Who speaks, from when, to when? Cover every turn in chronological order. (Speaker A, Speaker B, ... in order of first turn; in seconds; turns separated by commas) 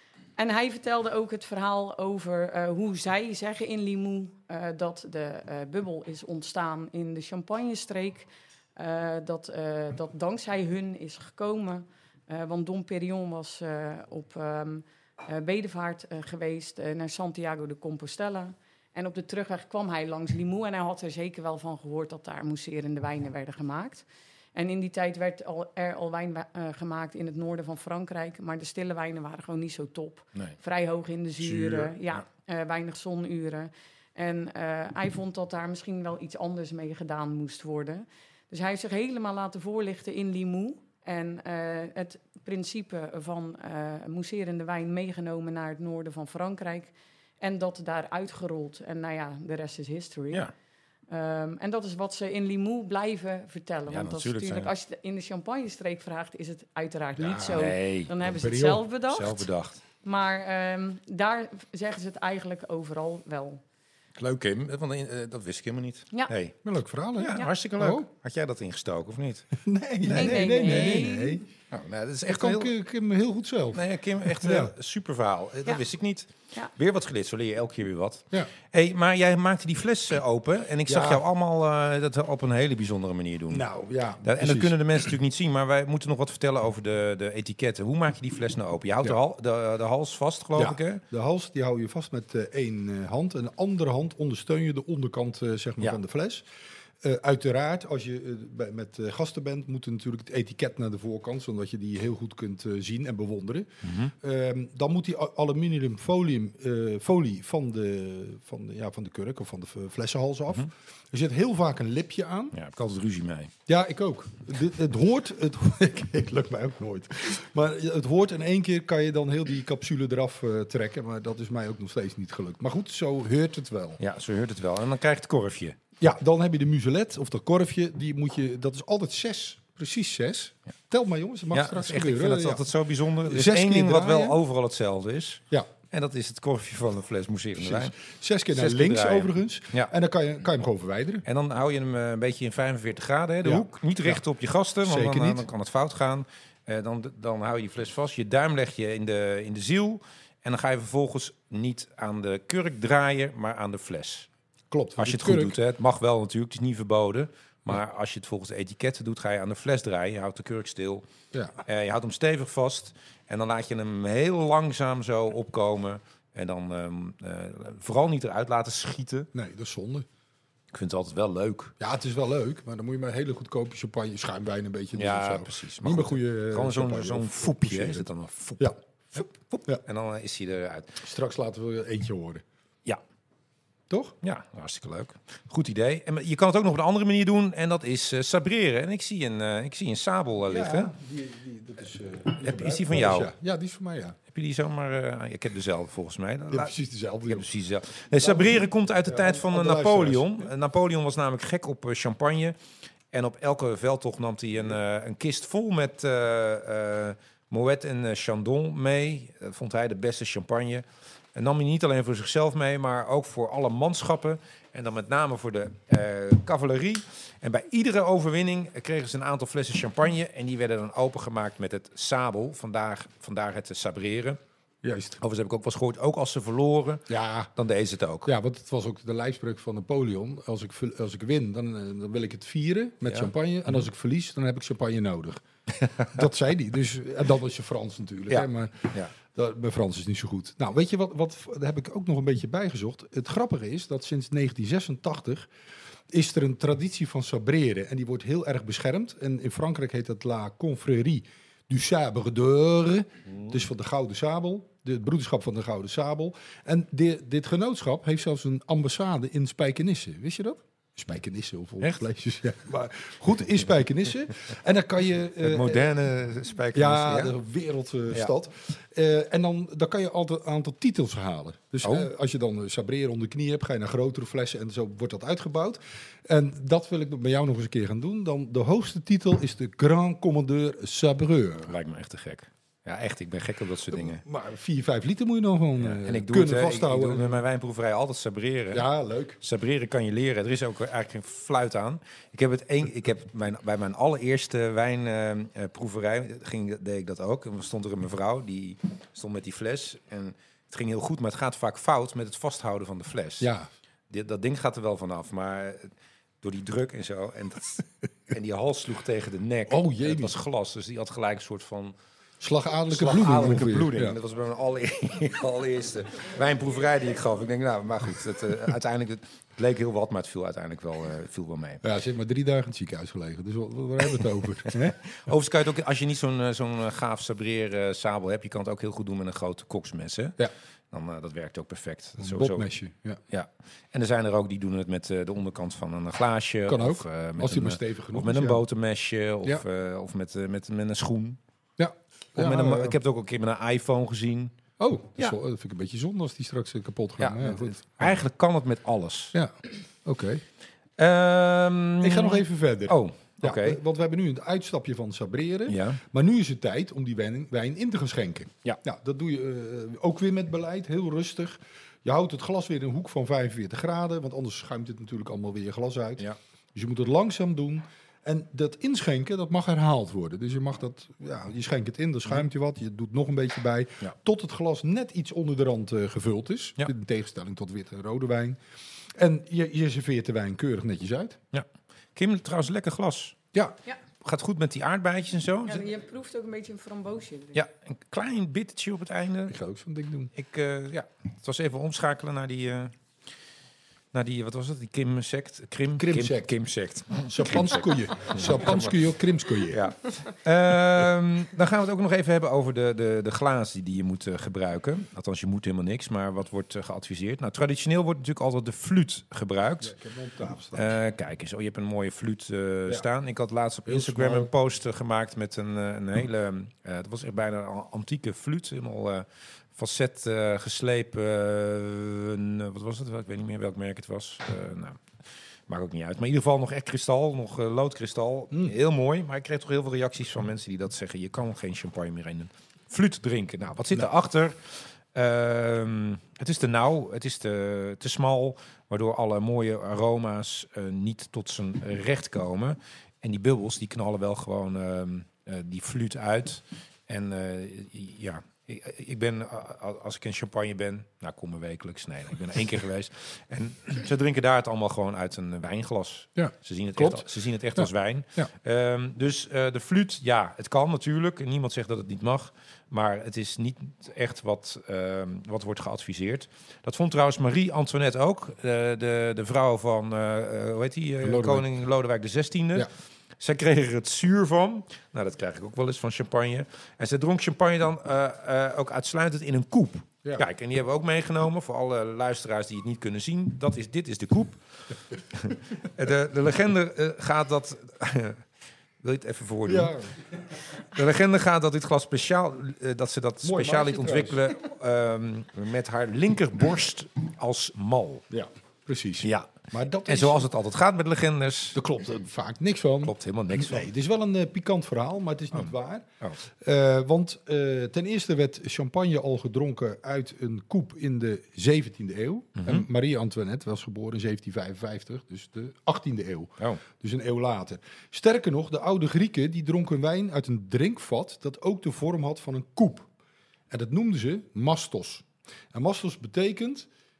Speaker A: 0.3-50.4, Speaker B: 31.4-32.2, Speaker A: 51.1-59.5, Speaker B: 53.9-54.7, Speaker B: 57.2-58.1, Speaker C: 58.2-58.8, Speaker B: 59.1-59.8, Speaker A: 60.0-63.6, Speaker B: 64.2-66.6, Speaker C: 66.6-68.0, Speaker B: 67.2-71.1, Speaker C: 69.6-71.4, Speaker A: 70.1-71.4, Speaker B: 71.7-72.7, Speaker C: 72.3-74.7, Speaker B: 73.7-83.6, Speaker C: 80.9-81.2, Speaker C: 83.5-84.8, Speaker B: 84.2-91.0, Speaker C: 90.5-96.5, Speaker C: 97.0-112.5, Speaker B: 103.8-104.1, Speaker B: 112.5-113.5, Speaker C: 113.7-124.0, Speaker B: 124.0-125.8, Speaker C: 126.0-132.6, Speaker B: 131.5-137.9, Speaker C: 133.2-134.4, Speaker C: 137.6-141.2, Speaker B: 138.5-139.9, Speaker B: 141.2-154.3, Speaker C: 143.4-144.2, Speaker C: 144.8-145.4, Speaker C: 154.7-155.6, Speaker B: 155.0-161.0, Speaker B: 161.6-169.3, Speaker C: 169.3-170.1, Speaker B: 170.7-171.7, Speaker C: 171.8-178.1, Speaker B: 174.9-181.0, Speaker C: 181.0-182.4, Speaker C: 183.9-184.2, Speaker B: 184.2-190.9, Speaker C: 190.5-194.2, Speaker B: 192.4-193.3, Speaker B: 194.3-196.7, Speaker C: 196.5-197.4, Speaker B: 197.3-202.6, Speaker C: 198.2-200.5, Speaker B: 203.1-224.4, Speaker C: 224.8-225.2, Speaker B: 225.2-228.3, Speaker C: 227.1-227.5, Speaker C: 228.2-235.4, Speaker C: 236.1-245.5, Speaker B: 238.3-239.1, Speaker C: 246.1-265.9, Speaker B: 265.4-267.3, Speaker C: 266.7-281.8, Speaker B: 271.8-272.1, Speaker B: 281.7-284.2, Speaker C: 283.9-287.4, Speaker B: 285.8-288.8, Speaker C: 288.7-289.4, Speaker B: 289.4-303.5, Speaker C: 303.4-303.7, Speaker B: 304.1-311.9, Speaker C: 309.7-310.3, Speaker C: 312.4-314.2, Speaker B: 312.9-321.8, Speaker C: 321.8-325.0, Speaker B: 324.7-330.4, Speaker B: 330.9-332.6, Speaker C: 332.2-333.2, Speaker B: 333.3-341.4, Speaker C: 336.7-338.6, Speaker C: 341.8-343.0, Speaker B: 342.4-344.5, Speaker C: 344.8-348.2, Speaker B: 347.2-349.3, Speaker C: 349.3-350.4, Speaker B: 351.0-353.8, Speaker C: 352.0-378.6, Speaker B: 355.7-356.0, Speaker C: 379.1-381.4, Speaker B: 382.1-385.8, Speaker A: 385.6-387.6, Speaker B: 387.5-389.6, Speaker C: 389.5-390.3, Speaker B: 390.3-392.9, Speaker B: 394.1-399.0, Speaker C: 396.0-396.5, Speaker C: 397.2-399.8, Speaker B: 399.6-409.9, Speaker C: 409.8-410.9, Speaker B: 410.7-425.0, Speaker C: 413.9-414.5, Speaker B: 425.7-488.4, Speaker C: 456.4-458.5, Speaker C: 471.2-471.7, Speaker B: 489.0-489.9, Speaker C: 489.6-490.1, Speaker B: 490.8-498.2, Speaker C: 493.4-494.5, Speaker C: 498.3-500.5, Speaker B: 499.2-499.5, Speaker B: 500.1-501.8, Speaker C: 501.7-523.1, Speaker B: 503.0-503.9, Speaker B: 512.6-512.9, Speaker C: 523.7-526.9